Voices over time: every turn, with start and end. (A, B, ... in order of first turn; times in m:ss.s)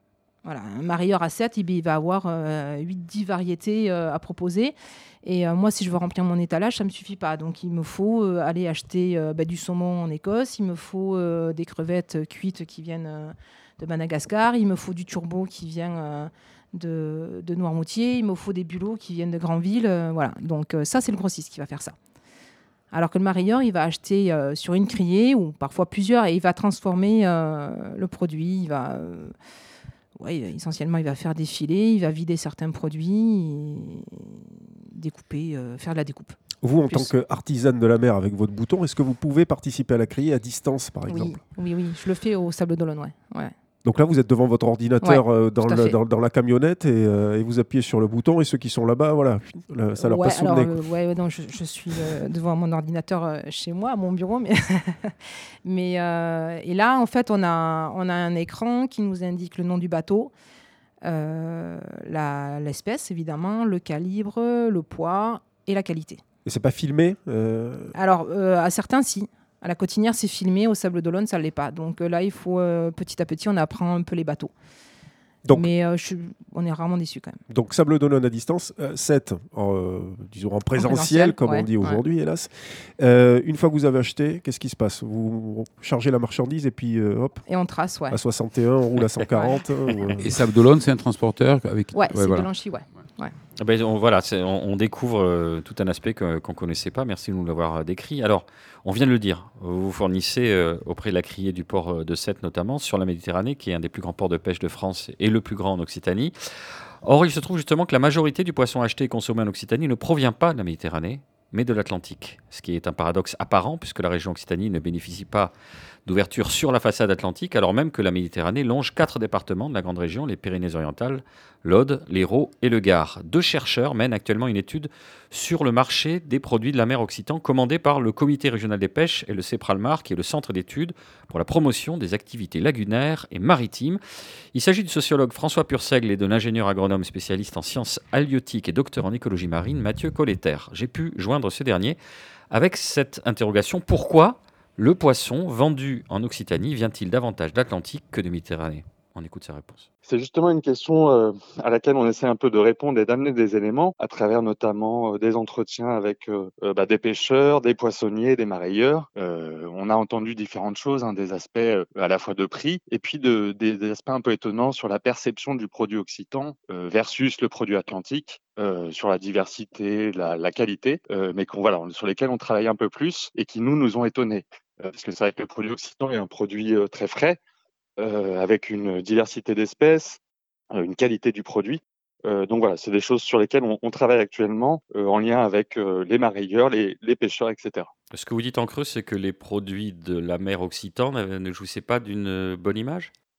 0:00.4-0:21.9 A
0:22.9-0:29.3 A
0:30.2-0:36.4 A
0:36.6-0:41.3 B
0:41.1-0:43.5 A
0:43.8-0:50.8 B
0:45.0-0:46.0 A
0:50.0-1:00.3 A
1:01.0-1:06.2 A
1:06.4-1:07.9 B
1:07.9-1:14.5 A
1:15.5-1:17.4 A
1:17.5-1:27.4 B
1:20.8-1:22.0 A
1:27.5-1:28.2 A
1:28.1-1:30.3 B
1:29.3-1:29.6 A
1:30.2-1:32.5 C
1:31.9-1:33.3 A
1:33.6-1:46.3 D
1:47.0-1:55.5 D
1:56.0-2:14.0 D
2:14.5-2:22.0 D
2:22.5-2:29.9 D
2:30.0-2:57.4 E
2:58.0-3:00.2 E
3:00.7-3:07.9 E
3:08.1-3:13.1 D